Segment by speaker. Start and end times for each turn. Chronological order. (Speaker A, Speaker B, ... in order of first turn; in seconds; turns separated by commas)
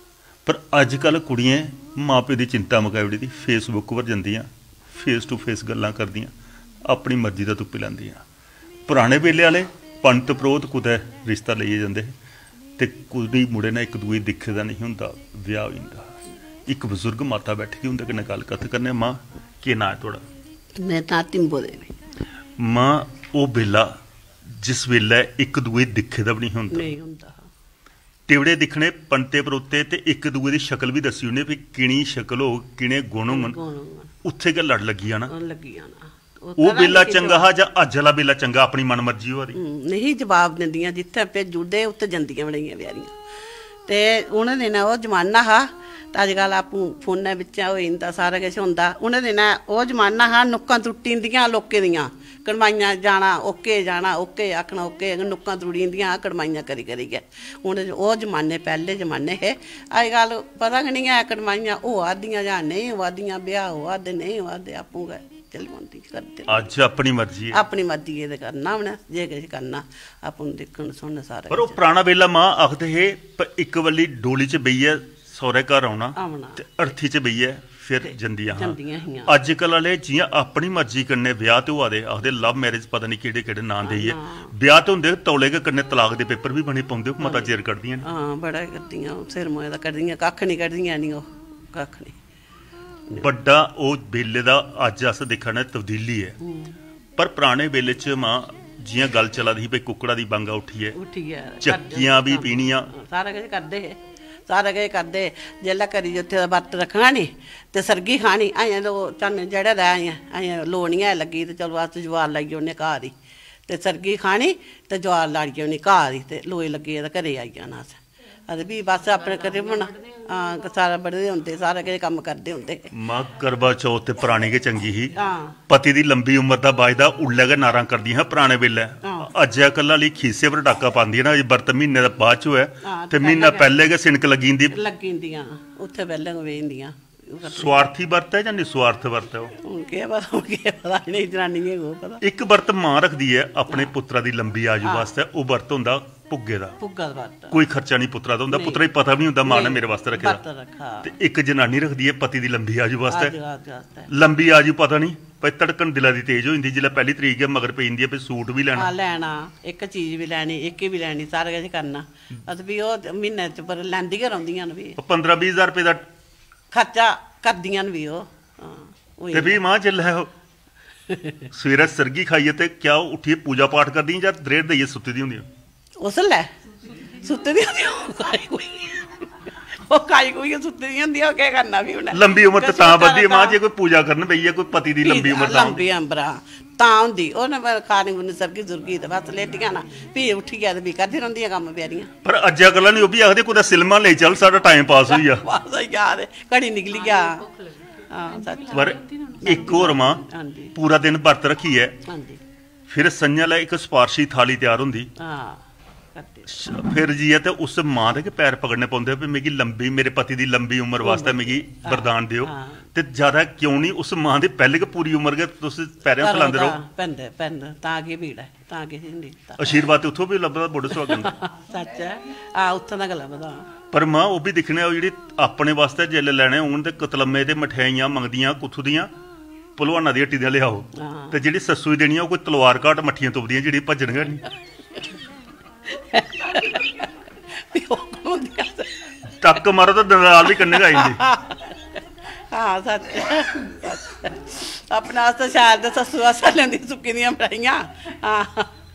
Speaker A: 0.5-6.3, Speaker A: 6.8-8.2, Speaker A: 8.9-12.1, Speaker A: 12.8-16.1, Speaker A: 16.7-20.2, Speaker B: 20.8-21.9, Speaker A: 22.6-23.9, Speaker A: 24.5-26.9, Speaker B: 26.7-27.4, Speaker A: 28.3-33.6, Speaker B: 33.3-34.1, Speaker A: 34.2-35.3, Speaker B: 35.3-37.5, Speaker A: 36.6-39.6, Speaker B: 39.5-43.1, Speaker B: 43.9-66.7, Speaker A: 66.5-67.6, Speaker B: 67.5-71.8, Speaker A: 71.5-88.0, Speaker B: 76.2-76.6, Speaker B: 78.5-79.3, Speaker B: 83.8-84.5, Speaker B: 87.2-92.2, Speaker A: 93.2-96.4, Speaker B: 96.4-96.8, Speaker A: 97.2-101.0, Speaker B: 101.0-113.1, Speaker A: 101.6-102.9, Speaker B: 113.7-122.8, Speaker A: 122.9-125.1, Speaker B: 125.2-125.5, Speaker A: 125.7-134.8, Speaker B: 132.8-133.8, Speaker B: 134.7-137.9, Speaker A: 137.5-139.5, Speaker B: 139.6-142.2, Speaker A: 142.2-146.8, Speaker B: 144.8-145.1, Speaker B: 146.8-147.6, Speaker A: 147.5-150.4, Speaker B: 148.5-148.9, Speaker B: 149.4-151.1, Speaker A: 151.0-153.3, Speaker B: 153.1-154.1, Speaker A: 154.1-158.9, Speaker B: 158.8-165.0, Speaker A: 165.0-166.0, Speaker B: 166.7-169.6, Speaker A: 169.3-170.3, Speaker B: 171.1-171.4, Speaker A: 171.5-175.4, Speaker B: 176.0-176.5, Speaker B: 177.0-183.6, Speaker A: 182.1-185.8, Speaker B: 185.0-192.1, Speaker A: 192.2-195.4, Speaker B: 195.1-197.4, Speaker B: 198.1-200.7, Speaker A: 198.7-200.2, Speaker A: 200.7-202.0, Speaker B: 202.1-202.4, Speaker A: 202.9-205.1, Speaker B: 205.2-205.6, Speaker B: 206.1-206.6, Speaker A: 206.5-216.8, Speaker B: 211.0-212.8, Speaker B: 216.2-219.9, Speaker A: 219.6-221.3, Speaker B: 221.0-223.7, Speaker A: 223.9-229.1, Speaker A: 229.8-234.4, Speaker B: 231.0-231.3, Speaker B: 235.9-238.9, Speaker A: 239.4-241.2, Speaker B: 240.5-241.8, Speaker B: 242.5-248.7